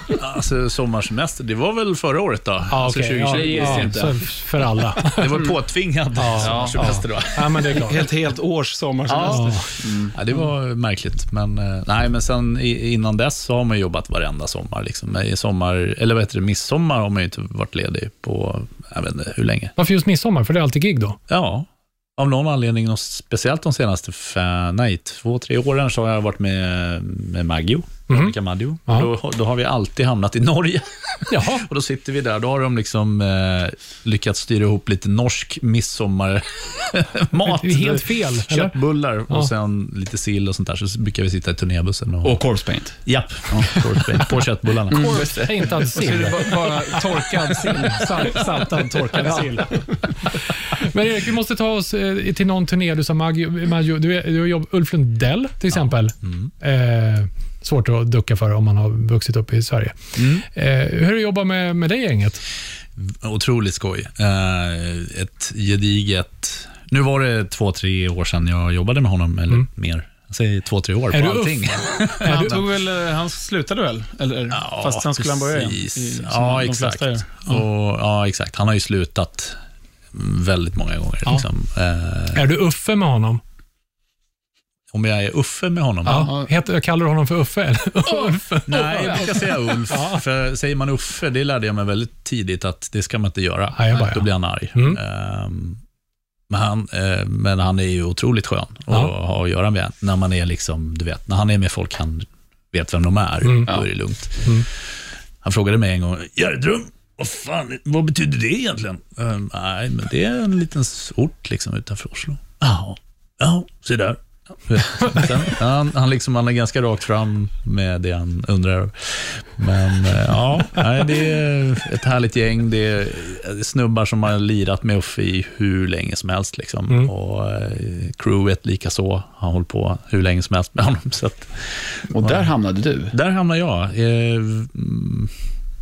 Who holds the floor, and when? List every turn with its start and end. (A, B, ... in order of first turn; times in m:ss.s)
0:00.1-0:04.1 A
0:02.7-0:05.4 B
0:02.8-0:03.9 C
0:03.3-0:04.2 D
0:05.0-0:07.8 A
0:06.2-0:08.1 B
0:06.4-0:07.0 D
0:07.7-0:09.8 C
0:09.1-0:19.7 A
0:09.2-0:09.6 B
0:09.8-0:10.1 D
0:19.8-0:21.2 B
0:21.3-0:42.4 A
0:28.1-0:28.4 B
0:31.3-0:31.7 B
0:37.4-0:38.8 B
0:42.2-0:43.0 D
0:43.0-0:45.3 A
0:43.5-0:44.1 D
0:44.9-0:47.8 D
0:44.9-0:46.6 B
0:45.9-0:49.9 C
0:50.6-1:02.4 B
0:55.7-0:56.5 A
1:00.2-1:00.4 A
1:03.0-1:12.7 A
1:11.1-1:12.6 B
1:12.2-1:17.6 C
1:14.5-1:19.6 A
1:20.1-1:22.4 A
1:22.3-1:23.4 B
1:24.9-1:26.3 A
1:26.1-1:30.2 B
1:26.1-1:26.5 C
1:28.7-1:35.8 A
1:28.9-1:29.3 D
1:33.8-1:35.0 B
1:36.5-1:44.7 A
1:43.4-1:43.7 B
1:45.4-2:12.3 A
2:12.1-2:13.1 D
2:13.1-2:15.3 A